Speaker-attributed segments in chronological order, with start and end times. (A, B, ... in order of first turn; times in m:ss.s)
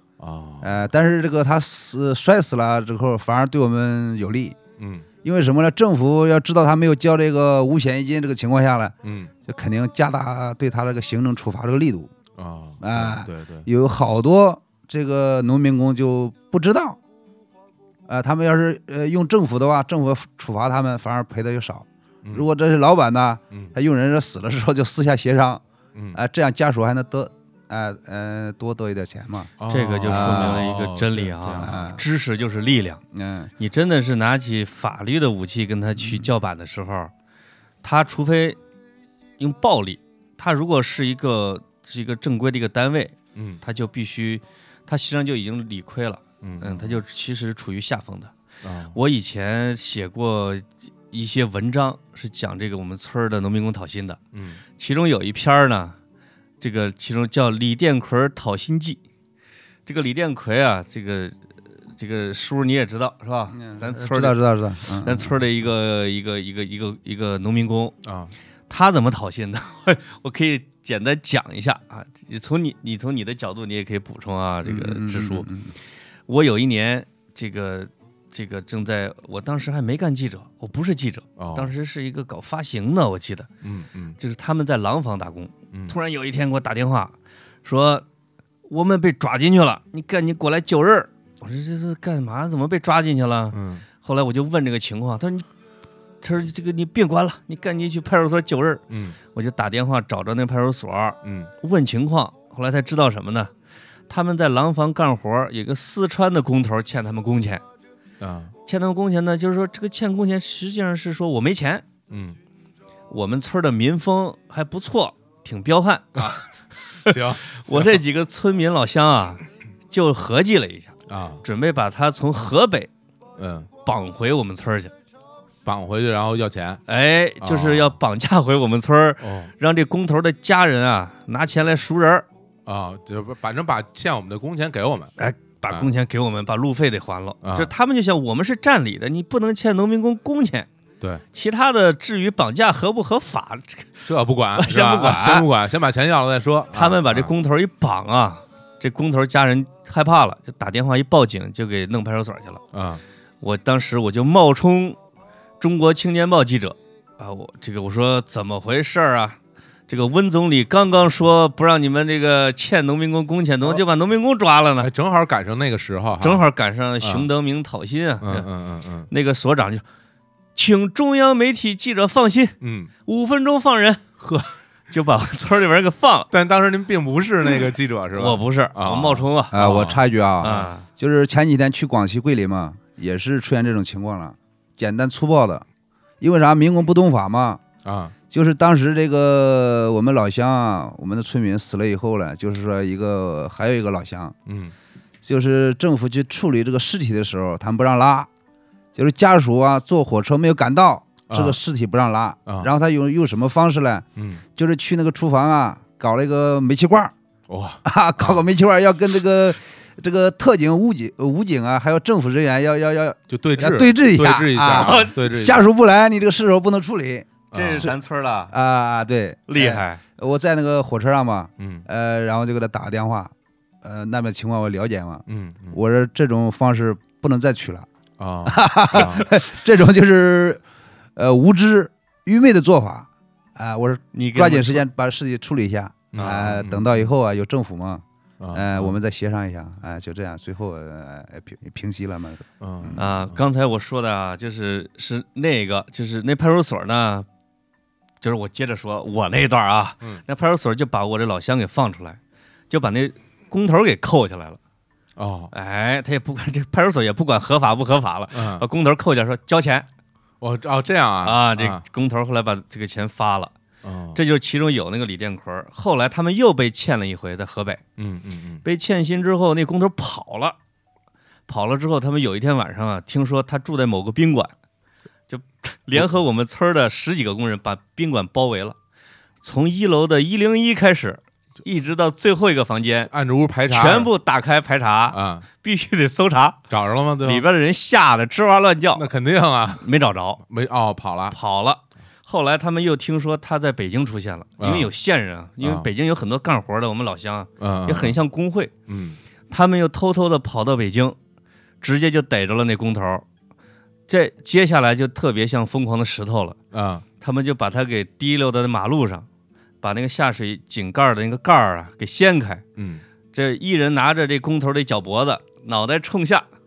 0:00.2-0:00.9 A
0:00.6-0:04.6 B
0:04.8-0:05.1 A
0:05.2-0:08.9 B
0:09.0-0:09.3 A
0:09.4-0:12.1 B
0:12.4-0:13.7 A
0:12.8-0:17.0 B
0:18.1-0:25.6 B
0:26.1-0:29.5 B
0:29.6-0:31.8 A
0:29.7-0:33.0 C
0:30.0-0:30.6 B
0:31.6-0:32.0 B
0:33.1-0:33.5 B
0:33.6-0:37.1 C
0:37.8-0:38.6 C
0:39.4-0:48.3 C
0:43.3-0:43.6 A
0:46.4-0:47.0 A
0:48.6-0:49.0 A
0:48.9-0:54.2 C
0:54.3-0:54.6 A
0:54.8-0:56.0 C
0:56.6-0:59.0 C
0:59.8-1:01.4 C
1:01.9-1:07.9 C
1:03.5-1:05.3 B
1:08.0-1:08.3 A
1:08.7-1:15.5 C
1:14.6-1:15.7 B
1:16.3-1:23.5 C
1:21.4-1:21.7 A
1:23.6-1:24.2 A
1:24.2-1:28.0 C
1:28.7-1:35.5 C
1:33.5-1:33.8 A
1:36.2-1:43.5 C
1:38.9-1:39.2 A
1:41.2-1:41.5 A
1:44.1-1:47.6 C
1:48.2-1:48.5 A
1:48.7-1:51.8 C
1:52.1-1:52.4 A
1:53.1-1:56.4 C
1:56.1-1:56.4 A
1:57.0-2:02.9 C
1:57.0-1:58.0 A
2:01.1-2:01.4 A
2:03.4-2:03.7 A
2:03.8-2:04.9 C
2:05.6-2:06.8 A
2:06.9-2:12.2 C
2:07.4-2:08.0 A
2:09.2-2:09.5 A
2:12.6-2:15.1 A
2:15.2-2:20.7 C
2:17.4-2:17.7 A
2:21.3-2:24.0 C
2:24.0-2:27.3 A
2:24.6-2:25.5 C
2:26.7-2:32.6 C
2:32.7-2:33.0 A
2:33.4-2:35.0 C
2:35.6-2:44.9 C
2:44.8-2:46.4 A
2:46.2-2:48.5 C
2:47.0-2:47.3 A
2:48.2-2:49.1 A
2:49.1-2:49.8 C
2:50.6-2:54.0 C
2:52.6-2:52.9 A
2:54.2-2:54.5 A
2:54.9-2:56.3 C
2:56.3-2:59.8 A
2:58.2-3:00.8 C
2:59.5-3:05.6 B
3:00.4-3:00.7 A
3:06.2-3:07.6 B
3:07.8-3:08.1 A
3:08.3-3:14.3 B
3:14.5-3:14.7 A
3:15.2-3:18.3 B
3:18.9-3:27.1 B
3:21.3-3:21.6 A
3:24.2-3:24.4 A
3:27.5-3:28.4 A
3:27.8-3:37.9 B
3:33.3-3:35.7 A
3:34.7-3:35.1 C
3:37.5-3:37.9 A
3:37.5-3:38.5 C
3:38.5-3:47.9 B
3:39.5-3:40.0 C
3:41.6-3:41.8 A
3:45.3-3:45.8 A
3:48.2-3:49.3 A
3:48.4-3:50.6 B
3:51.2-4:03.0 B
3:54.1-3:54.8 C
3:56.1-3:57.1 A
3:56.2-3:56.5 C
3:58.4-3:59.0 A
4:02.6-4:03.4 A
4:03.0-4:07.2 C
4:08.2-4:12.2 C
4:12.7-4:14.6 C
4:15.2-4:15.5 A
4:15.5-4:19.8 C
4:18.3-4:18.6 A
4:20.4-4:21.8 A
4:21.2-4:23.5 C
4:23.8-4:24.2 A
4:24.1-4:27.8 C
4:28.0-4:28.6 A
4:28.6-4:30.6 C
4:31.5-4:34.5 C
4:35.3-4:38.8 C
4:39.4-4:43.1 C
4:43.1-4:44.1 A
4:43.7-4:46.6 C
4:45.1-4:45.4 A
4:46.7-4:47.4 A
4:47.2-4:49.1 C
4:48.9-4:49.8 A
4:49.8-4:50.4 C
4:50.5-4:51.4 A
4:51.3-4:58.7 C
4:54.6-4:54.9 A
4:55.6-4:55.9 A
4:57.6-4:58.2 A
4:58.9-4:59.2 A
4:59.5-5:01.2 C
5:01.8-5:03.2 C
5:04.1-5:06.6 C
5:06.7-5:07.0 A
5:07.2-5:09.3 C
5:09.8-5:12.6 C
5:12.8-5:13.0 A
5:13.3-5:16.5 C